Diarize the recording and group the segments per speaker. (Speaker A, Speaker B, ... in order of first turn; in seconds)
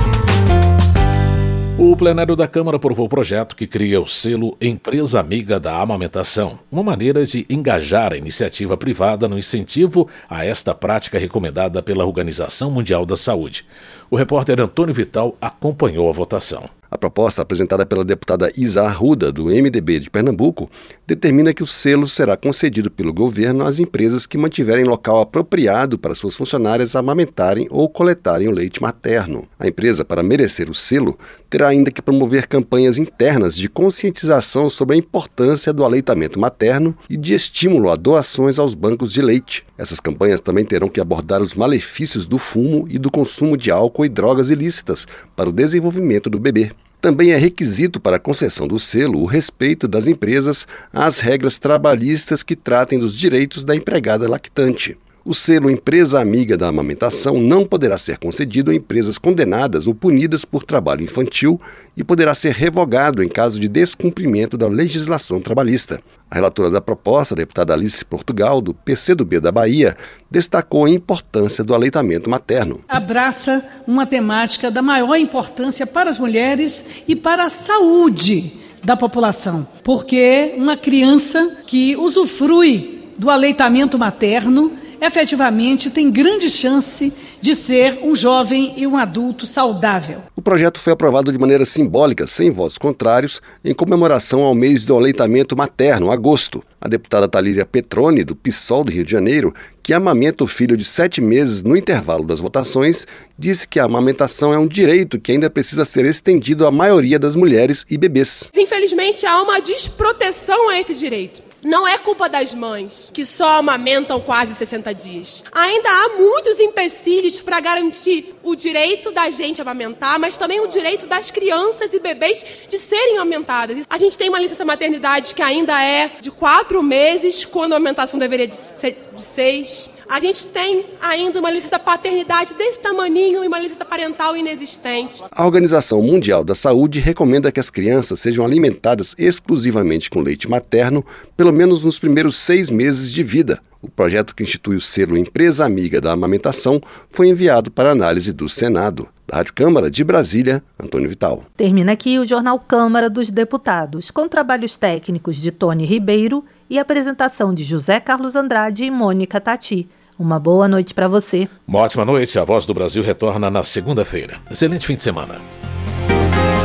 Speaker A: 1.8-16.7, 161.7-165.4
Speaker B: 16.9-72.8, 90.3-108.5, 135.3-151.4
Speaker C: 72.9-90.2
Speaker D: 108.5-135.2
Speaker E: 151.6-161.5